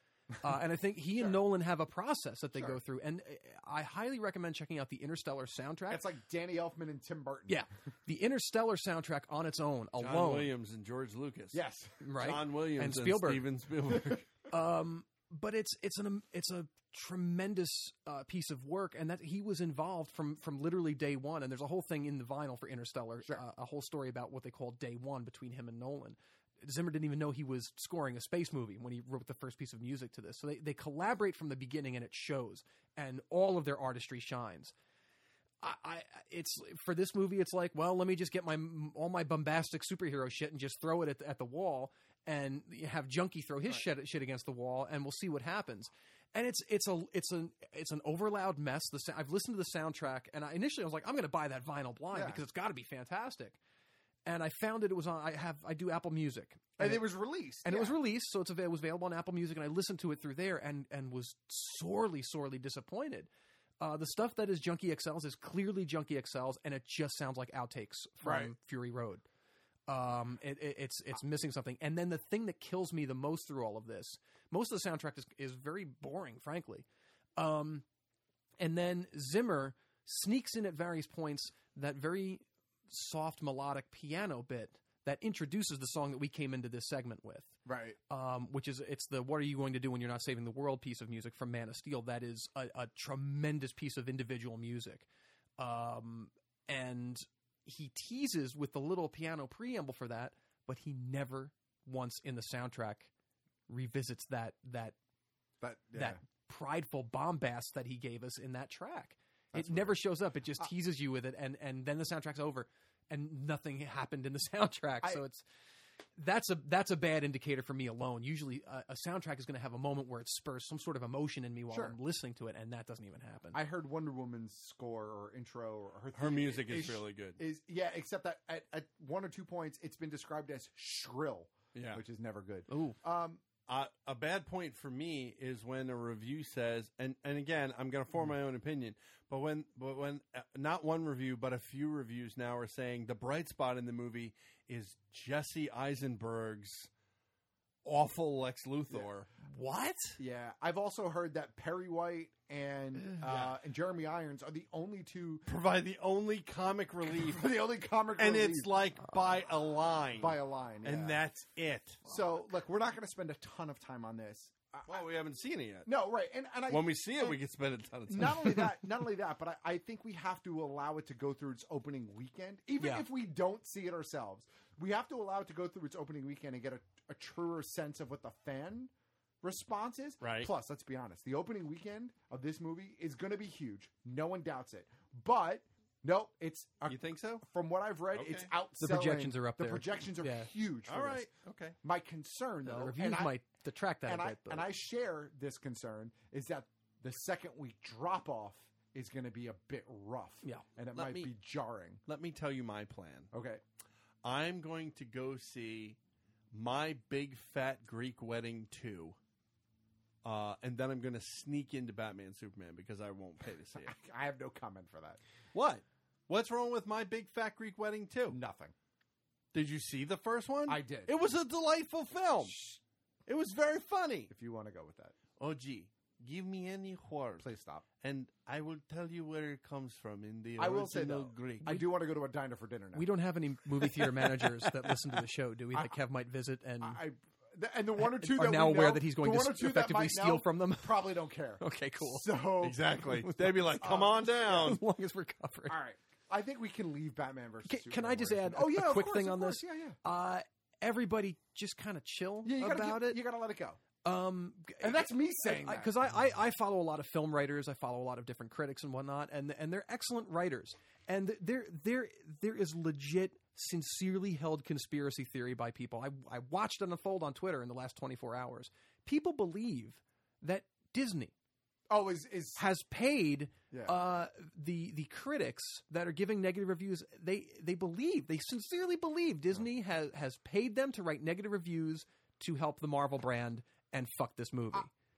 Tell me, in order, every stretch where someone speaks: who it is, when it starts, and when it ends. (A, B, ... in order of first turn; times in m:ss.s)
0:00.4-0:06.0 A
0:02.5-0:02.8 B
0:05.9-0:07.7 B
0:07.5-0:10.5 A
0:10.0-0:11.6 C
0:11.5-0:12.0 B
0:12.0-0:13.4 A
0:12.2-0:14.3 C
0:14.5-0:34.7 A
0:35.6-0:53.6 A
0:52.1-0:52.4 B
0:54.2-0:57.1 A
0:56.8-0:58.0 B
0:57.6-1:09.2 A
1:08.2-1:08.5 B
1:09.9-1:16.8 A
1:17.4-1:17.8 A
1:18.6-1:27.6 A
1:27.6-1:28.0 B
1:28.1-1:35.1 A
1:35.6-1:43.1 A
1:43.7-1:45.0 A
1:45.6-1:46.2 B
1:45.9-1:55.4 A
1:49.5-1:50.0 B
1:56.2-2:03.6 A
2:01.7-2:02.0 B
2:03.5-2:13.4 B
2:06.1-2:07.4 C
2:11.8-2:12.0 C
2:12.7-2:13.0 A
2:13.7-2:26.9 C
2:27.8-2:29.3 C
2:29.5-2:30.2 A
2:30.2-2:35.5 B
2:33.2-2:33.6 C
2:35.5-2:37.5 C
2:37.1-2:38.8 B
2:38.2-2:42.1 C
2:40.2-2:41.2 B
2:42.0-2:45.0 B
2:44.9-2:45.9 C
2:45.8-2:47.4 B
2:46.7-2:48.8 C
2:48.1-2:58.9 B
2:52.8-2:53.1 A
2:59.4-3:11.3 B
3:00.2-3:00.5 C
3:06.9-3:07.4 C
3:08.1-3:08.5 C
3:08.8-3:10.5 A
3:10.9-3:11.8 C
3:11.8-3:13.4 B
3:12.6-3:14.7 A
3:14.1-3:22.0 B
3:20.9-3:21.3 C
3:22.1-3:23.3 C
3:23.3-3:23.6 B
3:24.2-3:26.0 C
3:26.5-3:29.2 C
3:30.2-3:33.9 C
3:33.7-3:35.2 B
3:35.5-3:38.4 C
3:38.3-3:38.7 B
3:39.5-3:42.6 C
3:40.7-3:41.2 B
3:42.4-3:42.8 B
3:43.3-3:44.3 C
3:44.3-3:45.2 B
3:45.4-3:47.5 C
3:47.4-3:47.9 B
3:48.0-3:51.8 C
3:50.6-3:53.1 B
3:52.9-3:57.0 A
3:56.8-4:02.8 B
3:58.0-4:02.3 A
4:02.6-4:04.8 C
4:03.2-4:03.7 A
4:03.8-4:04.8 B
4:04.5-4:05.8 A
4:05.7-4:10.0 B
4:07.7-4:13.2 A
4:12.4-4:13.8 B
4:14.0-4:31.3 A
4:14.8-4:16.0 B
4:31.9-4:32.6 B
4:32.6-4:44.9 A
4:33.7-4:34.0 B